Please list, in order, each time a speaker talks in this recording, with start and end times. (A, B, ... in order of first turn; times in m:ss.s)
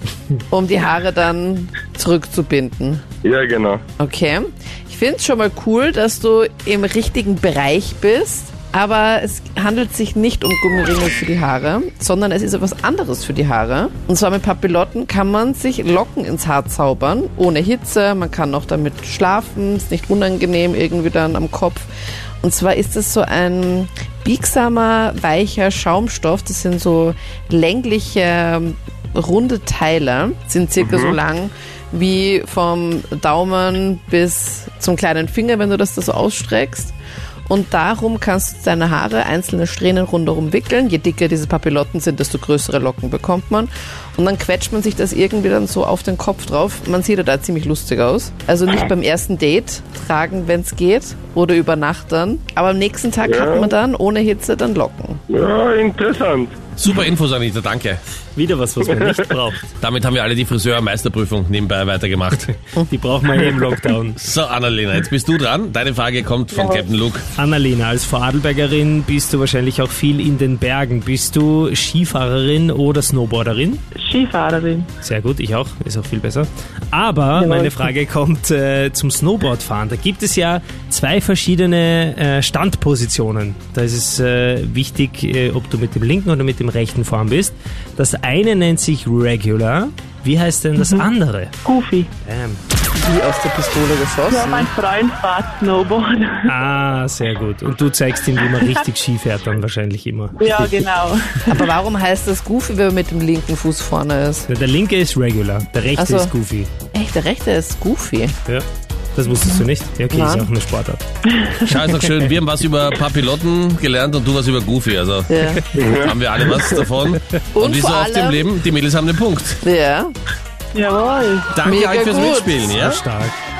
0:00.5-0:03.0 A
0:03.2-0:03.8 B
0:04.0-0:21.9 A
0:22.4-0:36.9 A
0:30.8-0:31.2 B
0:37.5-0:55.2 A
0:53.2-0:53.7 B
0:55.3-0:56.7 B
0:56.8-0:58.0 C
0:58.4-0:59.7 D
0:59.8-1:02.5 C
1:02.9-1:04.2 D
1:04.2-1:07.2 C
1:06.6-1:06.8 E
1:07.4-1:13.8 D
1:14.0-1:14.9 E
1:15.0-1:31.5 D
1:17.4-1:17.9 E
1:30.8-1:31.1 E
1:31.6-1:32.1 E
1:32.2-1:32.6 D
1:32.9-1:34.7 A
1:34.3-1:36.5 E
1:36.5-1:40.7 D
1:40.4-1:41.6 E
1:41.5-1:44.5 A
1:44.5-1:46.7 D
1:46.0-1:46.3 A
1:46.9-1:48.4 A
1:48.5-1:51.0 D
1:50.1-1:50.5 A
1:51.6-1:55.3 C
1:55.3-1:55.7 A
1:55.8-1:56.2 B
1:55.9-1:59.6 C
1:57.5-1:58.5 A
1:59.6-2:00.1 A
2:00.7-2:01.5 E
2:01.6-2:03.0 C
2:01.6-2:02.6 A
2:02.7-2:03.4 D